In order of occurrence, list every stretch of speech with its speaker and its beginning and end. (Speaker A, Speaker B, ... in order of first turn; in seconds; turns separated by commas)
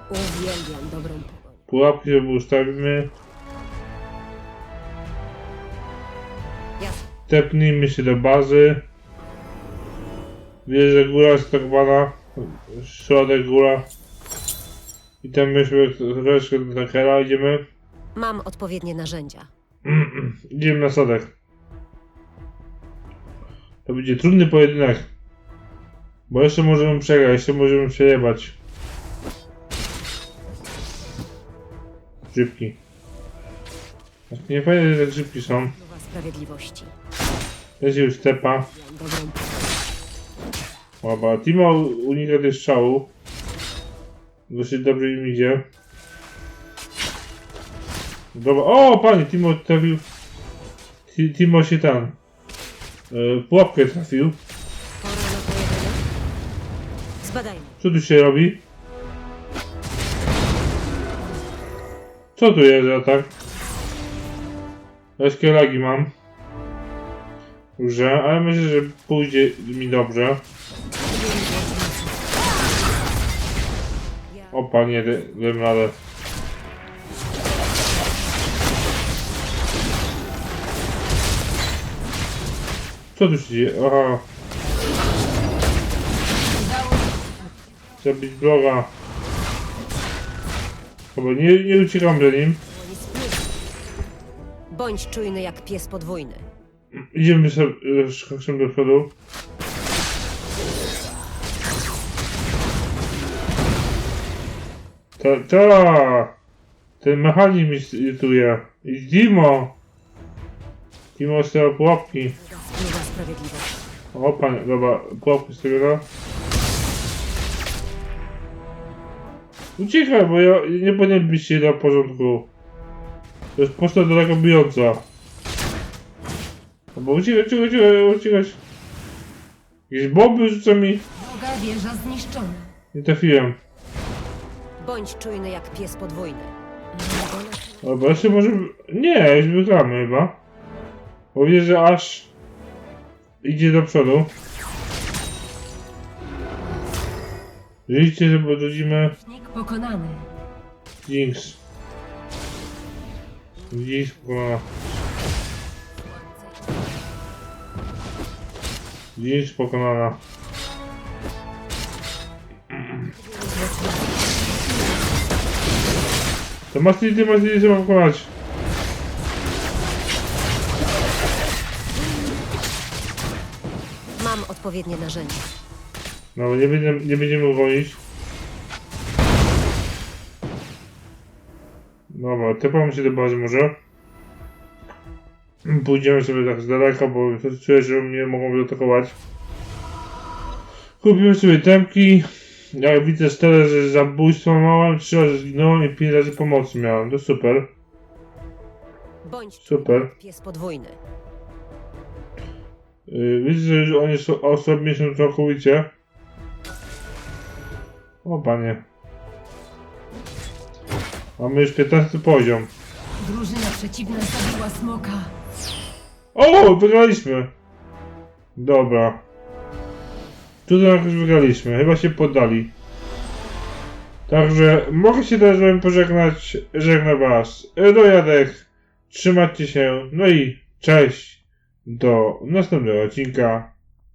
Speaker A: 0.1-1.7, Speaker B: 1.7-3.1, Speaker B: 7.3-8.8, Speaker B: 10.7-13.8, Speaker B: 15.2-17.6, Speaker A: 18.1-19.5, Speaker B: 19.8-21.3, Speaker B: 23.9-25.1, Speaker B: 26.3-28.6, Speaker B: 32.3-32.8, Speaker B: 34.3-35.7, Speaker A: 35.7-36.9, Speaker B: 37.8-38.7, Speaker A: 38.6-39.8, Speaker B: 41.0-43.1, Speaker B: 44.5-45.6, Speaker B: 48.3-50.0, Speaker B: 51.1-52.1, Speaker B: 53.1-54.4, Speaker A: 55.0-56.1, Speaker A: 57.2-57.8, Speaker B: 57.8-58.6, Speaker B: 62.4-63.3, Speaker B: 65.2-66.1, Speaker B: 67.8-70.4, Speaker A: 71.0-72.5, Speaker A: 74.3-74.6, Speaker B: 74.5-76.0, Speaker B: 83.1-84.2, Speaker C: 86.5-87.5, Speaker B: 88.0-88.9, Speaker B: 91.1-92.6, Speaker A: 92.5-93.6, Speaker A: 94.7-96.5, Speaker B: 96.9-99.1, Speaker B: 105.2-106.3, Speaker B: 107.0-109.8, Speaker B: 111.2-112.3, Speaker A: 112.3-113.8, Speaker B: 114.1-116.1, Speaker B: 119.8-122.5, Speaker B: 123.5-125.0, Speaker B: 126.9-128.6, Speaker B: 129.9-131.1, Speaker C: 131.2-132.7, Speaker B: 132.9-133.6, Speaker A: 134.8-138.1, Speaker B: 137.8-140.4, Speaker B: 141.3-142.3, Speaker B: 143.4-144.3, Speaker B: 147.9-149.2, Speaker C: 149.2-150.3, Speaker B: 151.0-151.6, Speaker A: 153.6-154.6, Speaker B: 153.7-154.6, Speaker A: 156.2-156.7, Speaker B: 159.2-160.2, Speaker A: 163.0-164.6, Speaker B: 166.7-168.3, Speaker A: 174.2-175.5, Speaker B: 176.3-178.0, Speaker B: 182.1-183.7, Speaker B: 185.6-189.1, Speaker B: 191.0-197.7, Speaker A: 199.2-201.0, Speaker B: 199.6-200.1, Speaker B: 203.1-205.9, Speaker B: 208.2-208.8, Speaker B: 211.4-212.7, Speaker C: 213.2-215.3, Speaker B: 216.3-217.5, Speaker B: 218.6-219.2, Speaker B: 220.7-222.7, Speaker B: 224.3-233.7